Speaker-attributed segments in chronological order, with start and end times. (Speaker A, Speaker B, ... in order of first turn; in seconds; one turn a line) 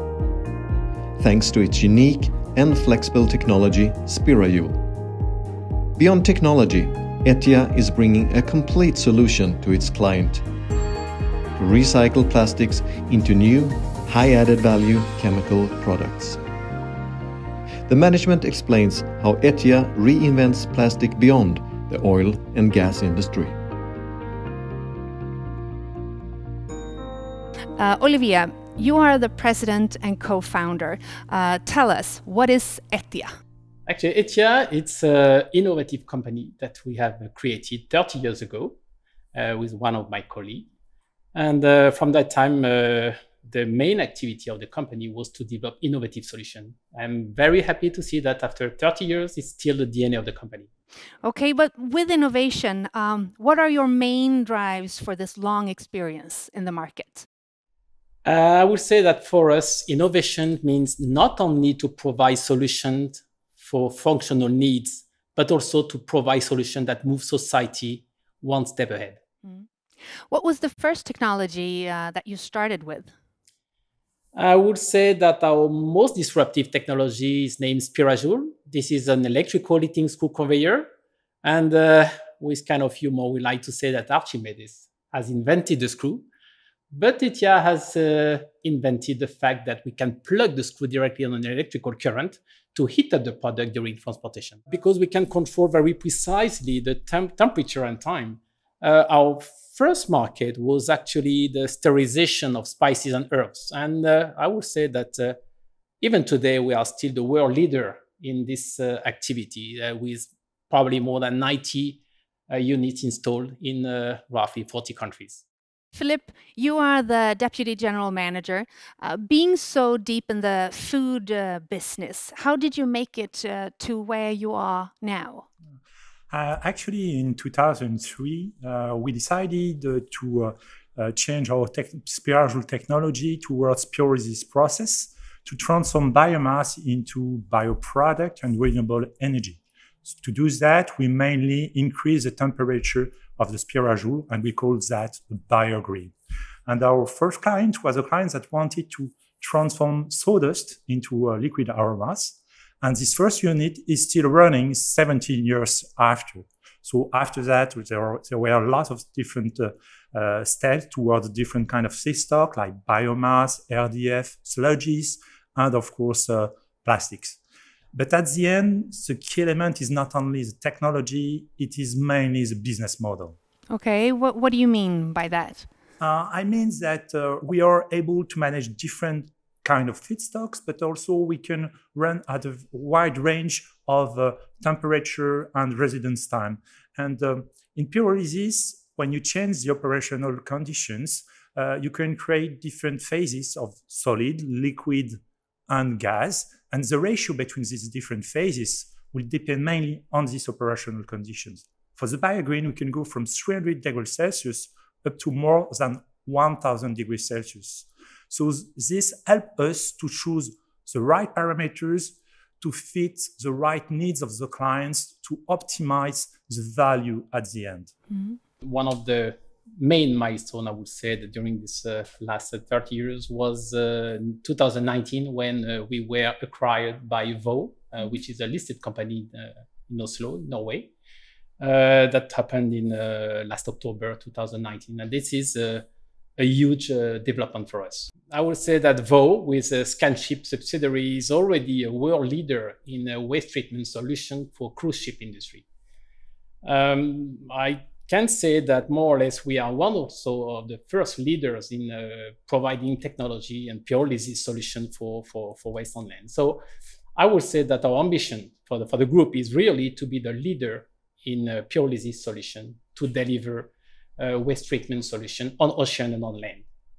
Speaker A: 1.2-4.9
Speaker A: 6.0-10.4
Speaker A: 11.6-16.4
Speaker A: 17.9-23.6
Speaker B: 27.8-33.3
Speaker C: 33.9-38.8
Speaker C: 39.3-40.7
Speaker C: 41.3-50.7
Speaker B: 51.2-57.3
Speaker C: 58.2-69.2
Speaker B: 70.3-73.1
Speaker C: 74.3-80.9
Speaker C: 81.4-86.2
Speaker C: 86.9-105.4
Speaker C: 106.0-115.4
Speaker B: 115.9-125.5
Speaker D: 126.3-146.1
Speaker D: 146.7-167.4
Speaker D: 167.9-173.3
Speaker B: 173.7-175.7
Speaker D: 176.0-195.2
Speaker D: 195.7-217.9
Speaker B: 218.1-218.4
Speaker C: 218.6-230.9
Speaker C: 231.6-235.9
Speaker C: 236.4-245.7
Speaker C: 246.6-256.6
Speaker C: 257.2-266.6